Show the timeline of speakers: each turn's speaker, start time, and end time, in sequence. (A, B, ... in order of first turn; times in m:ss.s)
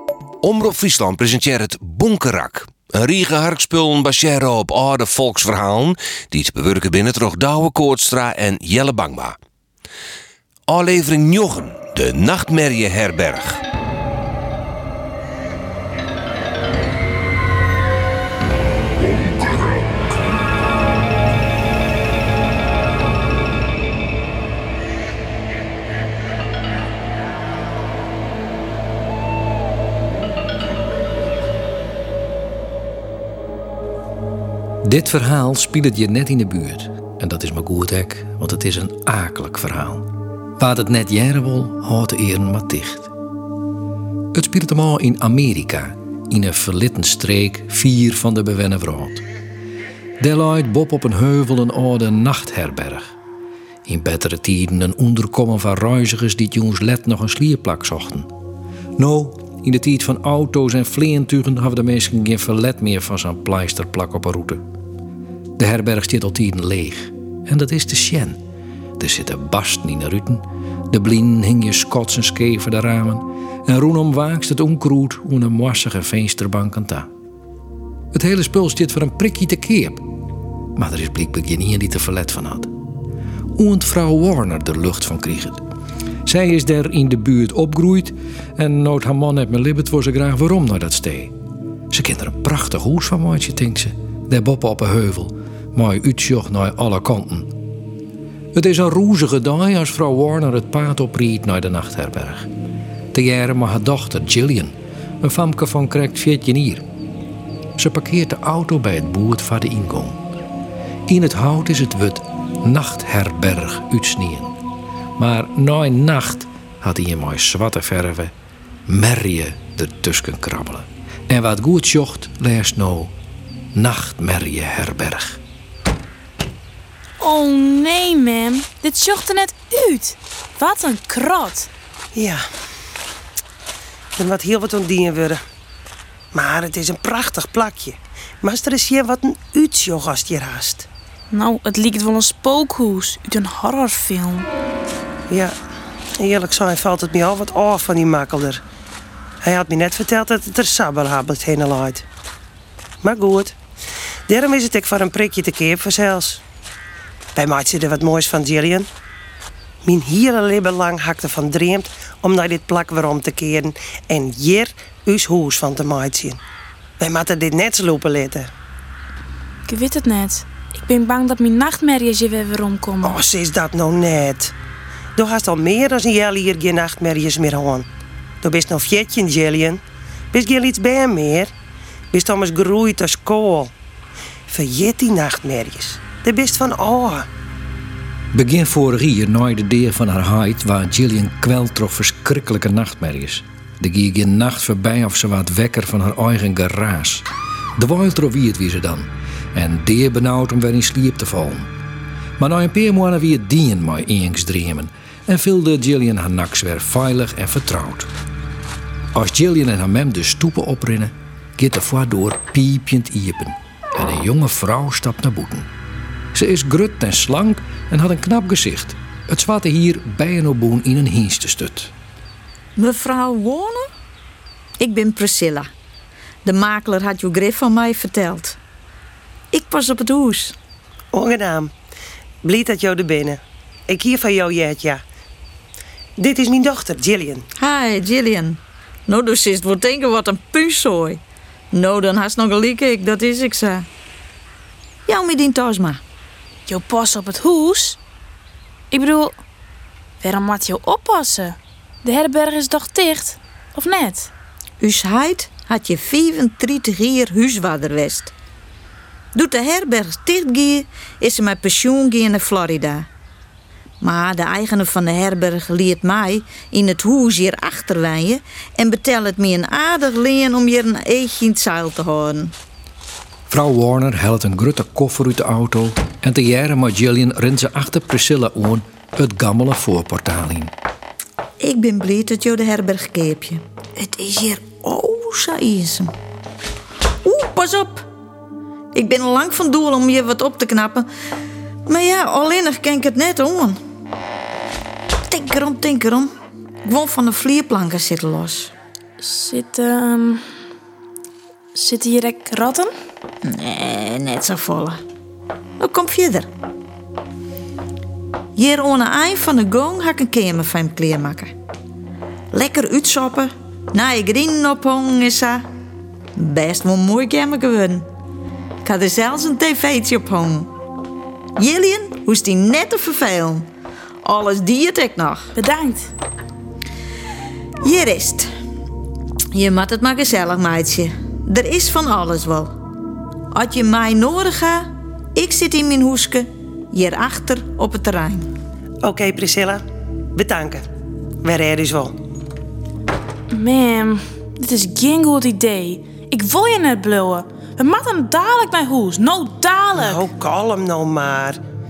0:00.4-0:09.4 A
0:10.7-0:13.6 A
0:34.8-0:43.1 B
0:44.3-0:49.2 B
0:50.2-0:53.1 B
0:53.9-0:58.3 B
0:59.0-1:04.6 B
1:05.6-1:08.4 B
1:09.0-1:17.1 B
1:18.1-1:20.1 B
1:20.8-1:22.7 B
1:23.6-1:25.6 B
1:26.2-1:31.3 B
1:31.9-1:37.5 B
1:38.5-1:42.5 B
1:43.1-1:46.8 B
1:47.8-1:50.2 B
1:51.1-1:54.6 B
1:55.2-1:58.3 B
1:58.9-2:03.1 B
2:03.7-2:05.4 B
2:07.2-2:11.7 C
2:12.1-2:12.4 D
2:14.2-2:15.4 D
2:16.3-2:20.9 D
2:21.3-2:24.5 C
2:26.2-2:28.6 D
2:29.4-2:32.0 D
2:33.0-2:33.6 D
2:34.3-2:36.4 D
2:37.4-2:38.9 D
2:39.8-2:46.4 D
2:47.0-2:48.5 D
2:49.7-2:53.2 C
2:53.0-2:54.5 D
2:55.2-2:57.9 D
2:58.4-2:59.8 D
3:00.3-3:01.5 D
3:02.1-3:03.7 D
3:04.5-3:07.3 D
3:08.3-3:17.3 B
3:17.8-3:21.7 B
3:22.4-3:28.1 B
3:29.2-3:35.7 B
3:36.3-3:41.9 B
3:42.8-3:43.9 E
3:44.8-3:45.7 E
3:46.4-3:48.6 E
3:49.5-3:50.6 E
3:51.1-3:51.7 D
3:52.4-3:55.0 D
3:56.2-3:57.4 D
3:57.6-4:03.9 E
4:05.1-4:06.0 E
4:06.7-4:08.0 C
4:08.9-4:09.4 C
4:10.2-4:14.3 C
4:14.8-4:18.3 E
4:19.3-4:23.1 E
4:24.0-4:32.5 E
4:33.5-4:40.7 B
4:41.6-4:46.1 E
4:47.2-4:48.1 E
4:48.9-4:51.1 E
4:51.8-4:53.8 E
4:55.3-4:56.3 E
4:56.8-4:58.7 E
4:59.2-5:00.4 C
5:01.8-5:02.9 C
5:03.4-5:05.0 E
5:05.8-5:06.5 E
5:08.6-5:11.5 E
5:12.5-5:15.6 E
5:16.4-5:18.1 E
5:18.8-5:20.7 E
5:21.6-5:23.6 E
5:24.2-5:25.5 E
5:25.5-5:26.1 C
5:27.8-5:28.5 E
5:29.5-5:32.7 E
5:33.5-5:38.5 E
5:39.0-5:39.8 D
5:40.4-5:40.8 D
5:41.4-5:42.1 D
5:43.5-5:50.3 C
5:49.9-5:51.6 D